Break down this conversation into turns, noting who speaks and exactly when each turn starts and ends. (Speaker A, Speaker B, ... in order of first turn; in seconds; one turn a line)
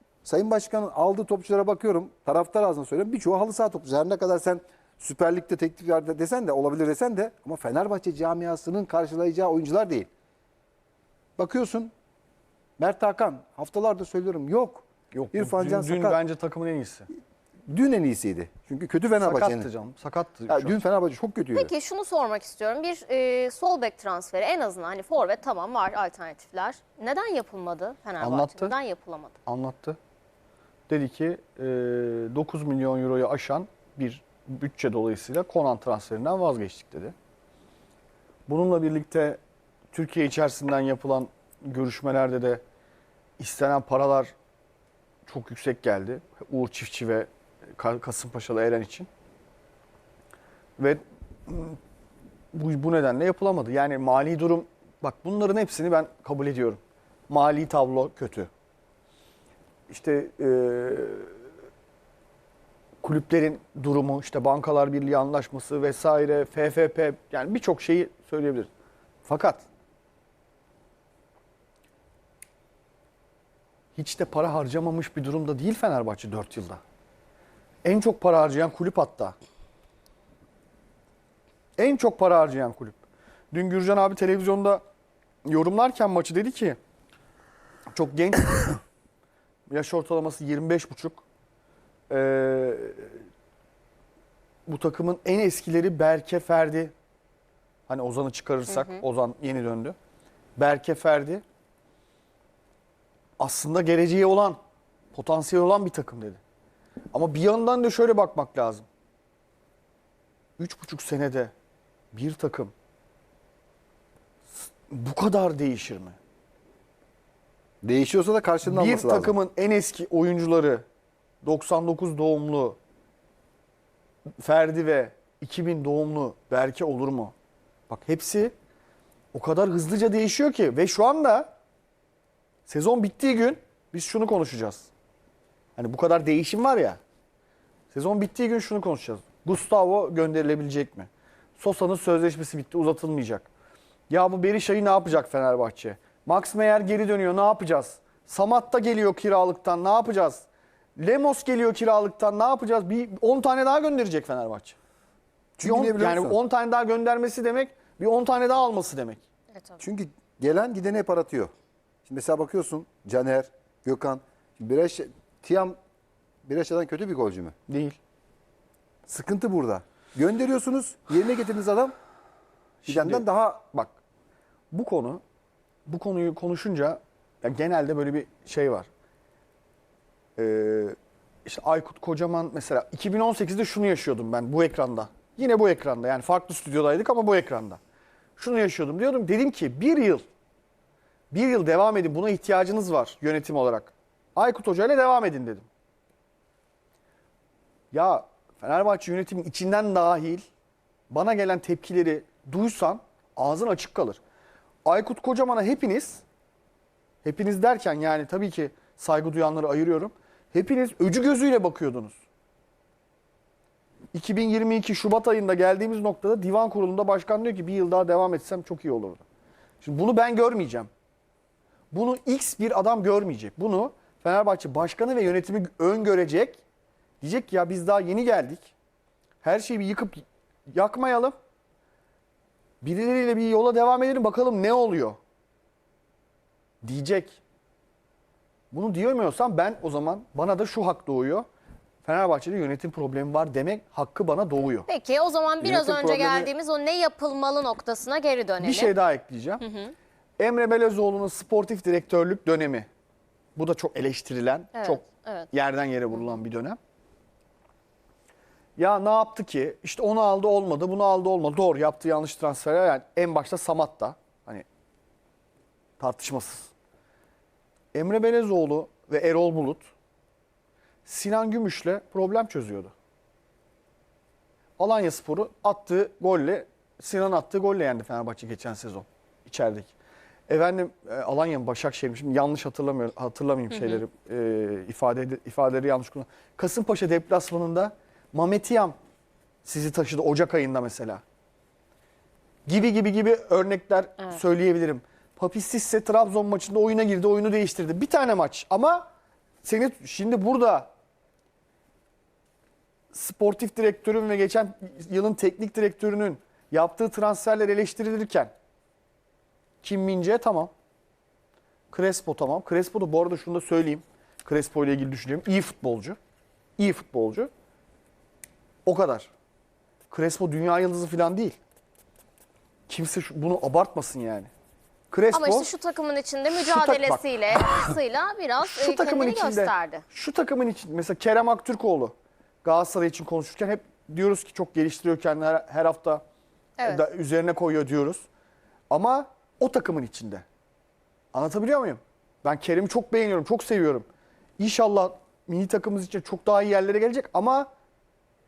Speaker A: 0.2-10.1
Speaker A: 11.4-11.9
Speaker A: 12.8-16.2
Speaker B: 15.1-17.1
Speaker A: 17.7-19.7
Speaker B: 19.2-20.8
Speaker A: 20.5-21.7
Speaker C: 21.5-29.4
Speaker B: 28.2-28.7
Speaker B: 29.4-30.0
Speaker B: 30.9-37.1
Speaker B: 38.5-39.4
Speaker B: 39.9-42.6
Speaker B: 43.4-44.3
Speaker B: 45.3-49.1
Speaker B: 50.8-51.8
Speaker B: 52.5-58.5
Speaker B: 59.9-61.3
Speaker B: 63.0-68.7
Speaker B: 69.2-69.6
Speaker B: 74.0-76.8
Speaker B: 77.8-79.3
Speaker B: 81.8-83.0
Speaker B: 83.5-84.8
Speaker B: 85.5-86.8
Speaker B: 87.9-88.8
Speaker B: 89.7-91.2
Speaker B: 92.1-93.2
Speaker B: 94.7-96.9
Speaker B: 97.9-99.9
Speaker C: 98.7-99.0
Speaker B: 100.6-101.4
Speaker B: 103.4-104.6
Speaker B: 105.1-106.4
Speaker B: 107.1-108.8
Speaker B: 110.6-111.5
Speaker B: 112.1-112.7
Speaker B: 114.9-116.2
Speaker A: 117.8-119.4
Speaker B: 118.6-120.8
Speaker B: 121.4-122.8
Speaker B: 124.4-127.3
Speaker B: 127.9-128.5
Speaker B: 129.3-131.5
Speaker B: 132.7-134.9
Speaker B: 135.8-137.0
Speaker B: 137.9-143.5
Speaker B: 144.1-150.4
Speaker B: 151.0-154.8
Speaker A: 155.6-156.4
Speaker B: 155.6-159.2
Speaker A: 159.8-161.5
Speaker A: 162.1-165.8
Speaker A: 166.4-167.6
Speaker B: 167.7-168.0
Speaker A: 169.1-171.9
Speaker A: 172.8-173.6
Speaker B: 172.8-173.9
Speaker B: 174.7-175.2
Speaker B: 175.8-178.9
Speaker B: 180.4-187.8
Speaker B: 188.4-190.3
Speaker B: 191.3-195.7
Speaker B: 197.9-200.4
Speaker B: 201.1-204.2
Speaker B: 204.8-206.2
Speaker B: 207.2-212.2
Speaker B: 214.1-219.2
Speaker B: 219.8-220.9
Speaker B: 221.9-226.6
Speaker B: 227.2-228.7
Speaker B: 229.4-231.3
Speaker B: 232.8-235.2
Speaker B: 236.8-237.4
Speaker B: 238.7-241.4
Speaker B: 242.0-244.9
Speaker C: 244.9-248.9
Speaker B: 245.6-246.5
Speaker B: 248.6-249.6
Speaker C: 249.6-249.9
Speaker B: 250.4-252.9
Speaker B: 253.6-256.8
Speaker C: 254.7-255.5
Speaker B: 258.8-264.6
Speaker B: 266.0-266.7
Speaker B: 267.9-269.9
Speaker B: 271.1-272.9
Speaker B: 274.8-279.9
Speaker B: 280.5-288.9
Speaker C: 283.7-284.0
Speaker B: 289.6-291.2
Speaker B: 292.6-299.1
Speaker B: 299.6-300.9
Speaker B: 303.1-308.5
Speaker B: 309.8-310.7
Speaker B: 311.9-316.2
Speaker B: 316.8-317.5
Speaker B: 318.8-319.3
Speaker B: 320.1-321.6
Speaker B: 322.9-324.5
Speaker B: 325.1-325.7
Speaker C: 325.3-330.0
Speaker B: 326.5-327.9
Speaker B: 328.6-332.1
Speaker B: 332.6-336.2
Speaker C: 336.8-337.0
Speaker B: 336.8-338.2
Speaker B: 338.9-340.4
Speaker B: 341.3-344.1
Speaker B: 344.6-347.7